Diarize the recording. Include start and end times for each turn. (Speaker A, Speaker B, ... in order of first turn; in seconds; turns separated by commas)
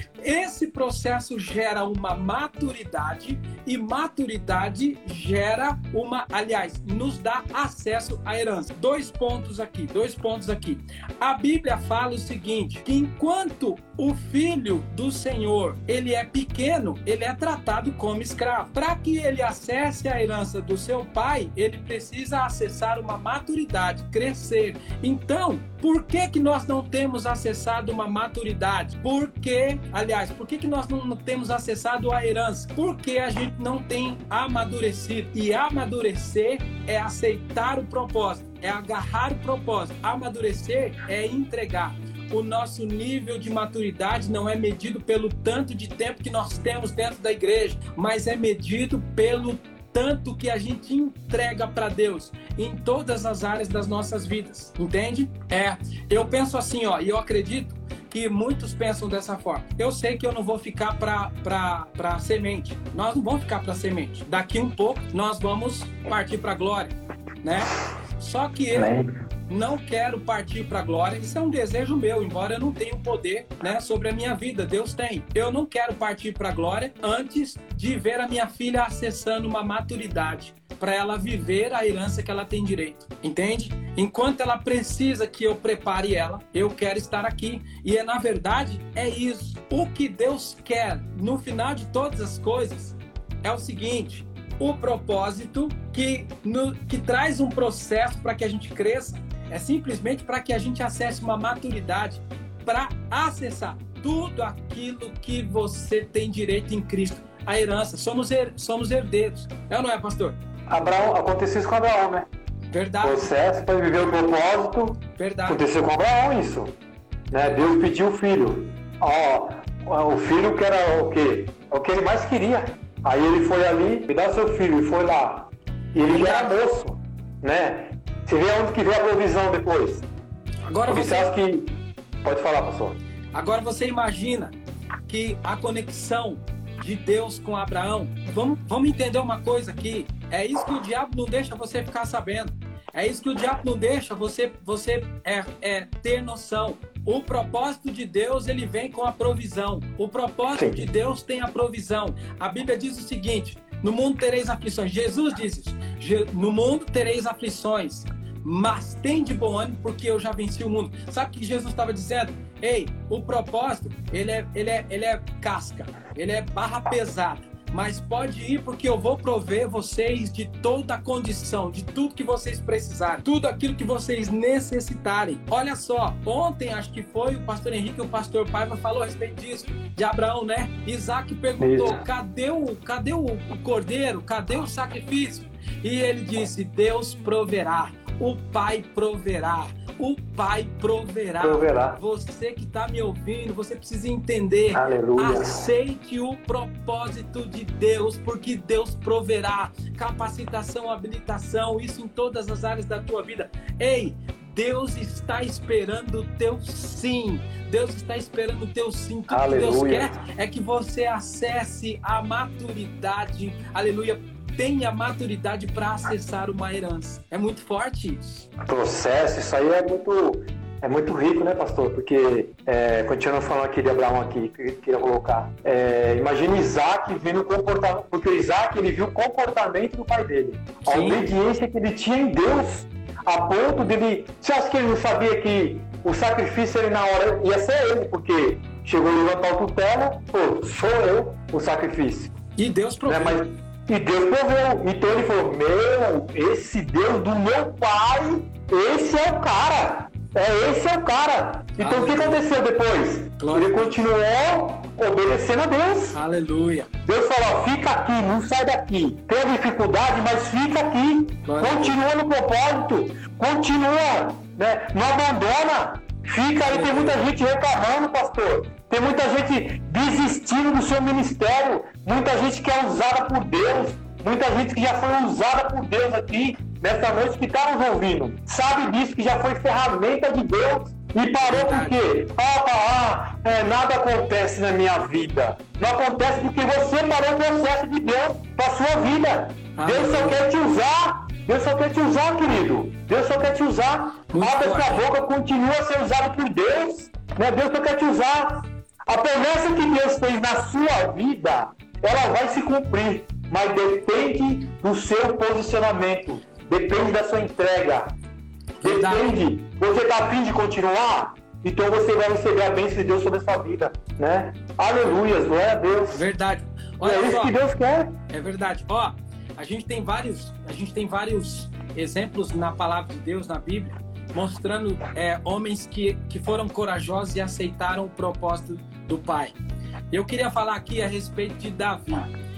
Speaker A: 0.2-68.9, Speaker B: 68.7-69.1, Speaker A: 69.5-110.4, Speaker B: 110.7-112.3, Speaker A: 112.7-113.3, Speaker B: 113.0-116.8, Speaker A: 115.2-115.6, Speaker B: 117.3-130.1, Speaker A: 126.1-126.5, Speaker A: 130.7-131.3, Speaker B: 130.9-133.0, Speaker A: 133.3-134.6, Speaker A: 135.1-218.5, Speaker B: 150.6-150.9, Speaker B: 181.6-182.0, Speaker B: 191.4-192.0, Speaker B: 194.7-195.7, Speaker B: 209.3-210.1, Speaker B: 218.7-242.3, Speaker A: 230.9-231.2, Speaker A: 242.6-243.4, Speaker B: 243.1-256.2, Speaker A: 251.8-252.4, Speaker A: 253.4-254.0, Speaker A: 256.1-256.9, Speaker B: 257.1-308.1, Speaker A: 261.4-261.9, Speaker A: 266.7-267.2, Speaker A: 281.5-282.0, Speaker A: 289.8-290.4, Speaker A: 294.3-295.0, Speaker A: 308.8-309.3, Speaker B: 308.8-316.2, Speaker A: 316.1-317.5, Speaker B: 317.0-318.2, Speaker A: 318.3-329.6, Speaker A: 330.1-332.3